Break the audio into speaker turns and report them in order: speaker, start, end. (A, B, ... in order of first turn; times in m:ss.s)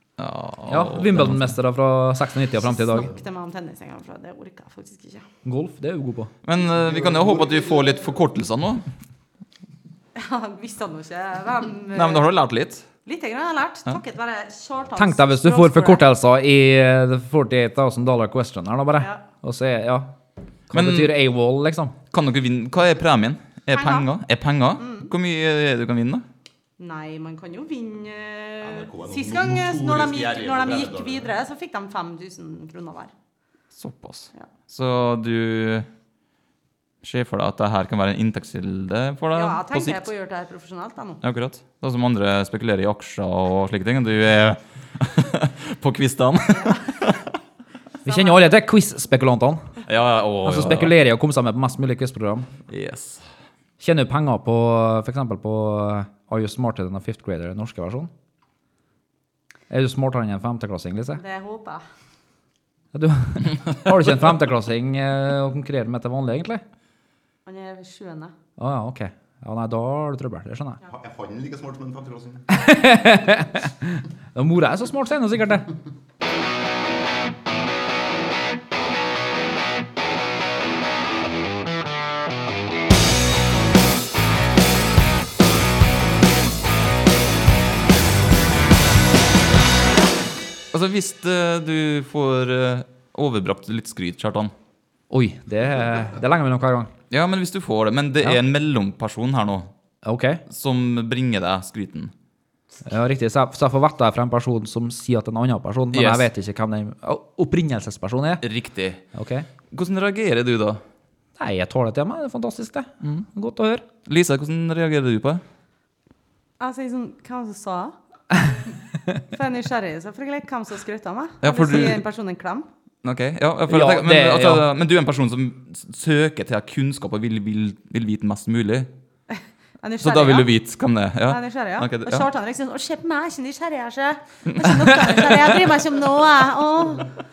0:00.2-0:01.5 A
0:00.7-0:03.1 B
0:02.6-0:05.2 C
0:05.4-0:06.3 B
0:06.4-0:08.8 A
0:06.6-0:07.9 D
0:10.1-0:12.3 C
0:11.9-0:12.8 A
0:13.0-0:16.0 C
0:15.0-0:20.1 B
0:20.7-0:21.9 B
0:20.7-0:21.2 A
0:22.1-0:26.2 A
0:23.7-0:24.1 C
0:24.8-0:25.1 C
0:26.8-0:33.1 C
0:28.6-0:31.3 D
0:33.7-0:35.9 A
0:37.0-0:40.1 A
0:39.3-0:41.2 C
0:41.2-0:47.2 A
0:46.5-0:47.1 C
0:48.0-0:48.4 C
0:48.0-0:49.6 B
0:49.9-0:50.9 A
0:50.4-0:52.5 B
0:52.7-0:53.2 A
0:53.8-0:58.1 B
0:59.7-1:01.2 B
1:01.2-1:01.8 C
1:02.9-1:06.6 B
1:07.4-1:08.3 C
1:08.6-1:10.8 B
1:10.9-1:12.4 D
1:12.5-1:15.7 B
1:30.7-1:34.5 A
1:35.1-1:36.9 B
1:37.1-1:39.7 A
1:40.0-1:40.4 B
1:40.5-1:42.1 A
1:42.9-1:48.4 B
1:45.9-1:46.3 A
1:48.4-1:49.0 A
1:49.1-1:49.5 B
1:49.7-1:50.8 A
1:51.4-1:53.9 B
1:54.1-1:55.4 A
1:56.6-1:57.9 C
1:59.3-2:02.7 C
2:01.4-2:02.0 A
2:03.0-2:08.9 A
2:03.7-2:04.6 B
2:09.3-2:10.5 C
2:10.0-2:12.3 A
2:11.3-2:17.1 C
2:14.5-2:14.9 A